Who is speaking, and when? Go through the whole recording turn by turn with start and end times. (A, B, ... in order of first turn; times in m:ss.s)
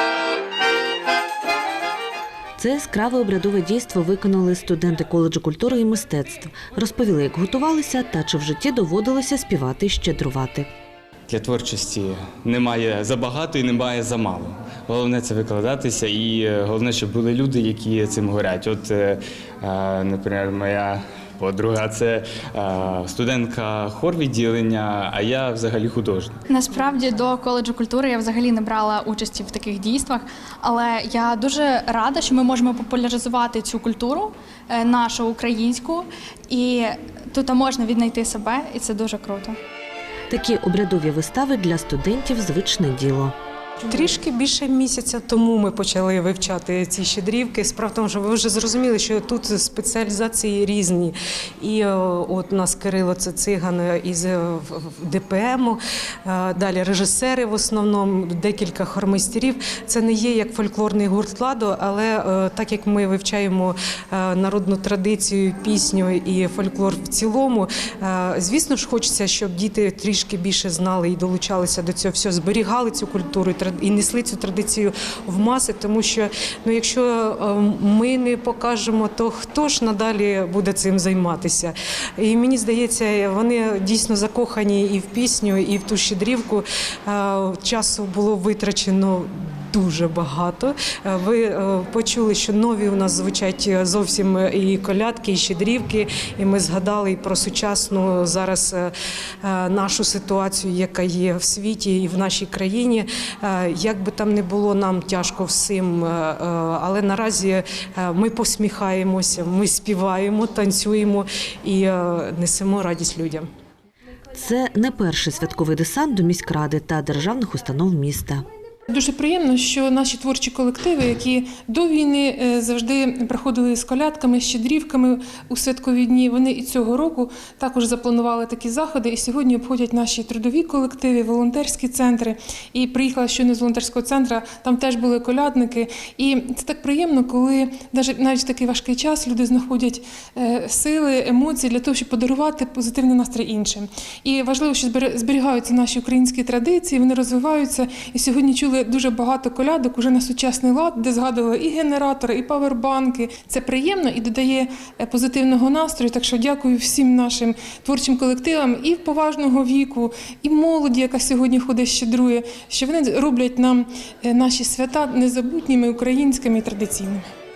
0:02.6-0:10.7 A
0:11.3-0:26.4 B
0:26.5-0:39.6 C
0:40.3-0:43.3 A
0:43.8-1:53.4 D
1:54.3-1:58.4 A
1:58.9-2:47.2 E